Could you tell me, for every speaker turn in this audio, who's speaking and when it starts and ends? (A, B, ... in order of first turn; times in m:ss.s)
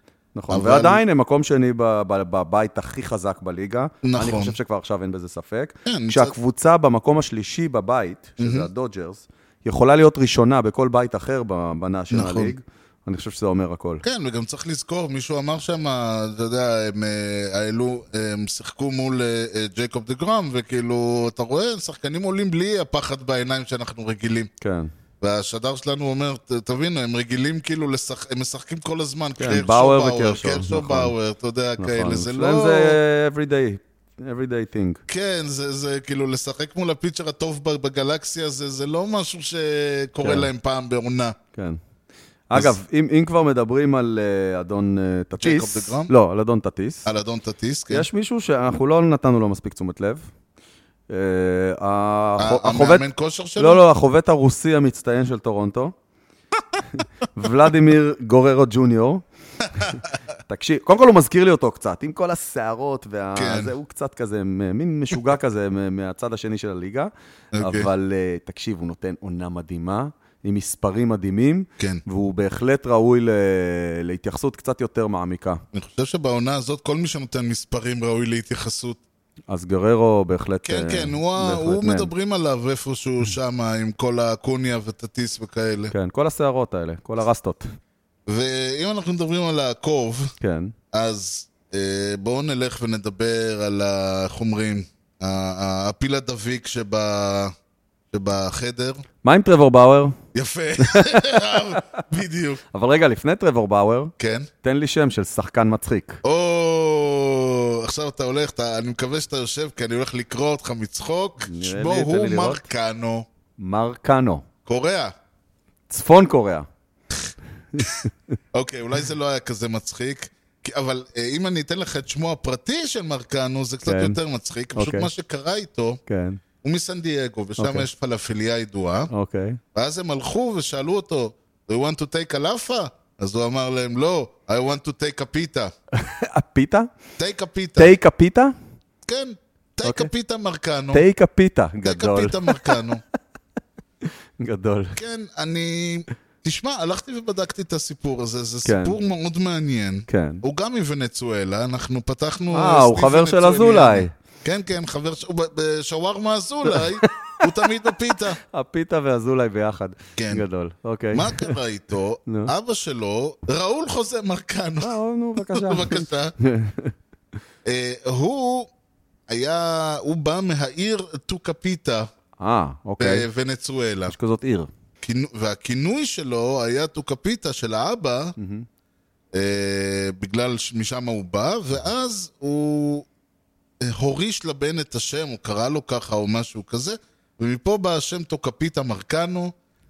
0:00.3-0:14.0 A
0:00.5-0:01.0 B
0:04.0-0:04.6 B
0:05.8-0:06.3 B
0:08.4-0:08.7 B
0:12.1-0:12.5 B
0:14.0-0:24.5 B
0:24.6-0:24.9 A
0:25.2-0:33.0 B
0:29.4-0:31.1 A
0:31.8-0:35.0 A
0:35.1-0:41.4 B
0:40.2-0:40.5 A
0:41.5-0:41.8 A
0:42.5-0:47.1 A
0:45.4-0:46.1 B
0:47.0-0:48.1 B
0:47.9-0:50.3 A
0:51.1-0:53.0 A
0:52.4-0:53.8 B
0:53.6-0:55.9 A
0:56.9-0:59.2 A
0:59.7-1:15.6 A
1:03.3-1:03.7 B
1:07.5-1:07.9 B
1:15.7-1:19.0 B
1:19.5-1:22.1 A
1:20.6-1:25.9 B
1:25.9-1:27.6 A
1:28.3-1:30.3 B
1:30.4-1:30.7 A
1:30.9-1:37.5 B
1:38.1-1:39.0 B
1:39.2-1:40.2 A
1:40.3-1:42.6 B
1:40.8-1:41.8 A
1:42.7-1:46.2 A
1:44.2-1:44.5 B
1:46.2-1:53.3 B
1:51.4-1:52.6 A
1:53.6-1:54.4 A
1:54.6-1:55.1 B
1:55.9-1:56.7 A
1:57.7-1:58.1 A
1:57.8-2:06.0 B
2:03.8-2:04.2 A
2:04.7-2:05.1 A
2:06.1-2:06.4 A
2:06.6-2:09.1 B
2:07.6-2:07.9 A
2:09.1-2:09.6 A
2:09.7-2:15.7 B
2:15.9-2:16.9 A
2:17.2-2:17.9 B
2:17.8-2:18.5 A
2:19.0-2:21.0 B
2:19.8-2:20.1 A
2:20.9-2:22.8 A
2:21.8-2:23.0 B
2:24.0-2:25.0 A
2:25.0-2:38.4 B
2:28.6-2:29.0 A
2:30.1-2:30.4 A
2:32.5-2:34.1 A
2:36.6-2:41.5 A
2:40.2-2:40.4 B
2:41.1-2:46.3 B
2:44.8-2:46.9 A
2:47.6-2:48.7 B
2:49.3-2:52.1 B
2:52.4-2:53.3 A
2:53.0-2:54.1 B
2:54.1-2:54.7 A
2:55.0-2:58.3 B
2:58.4-2:58.7 A
2:59.3-3:03.1 B
3:03.8-3:09.5 B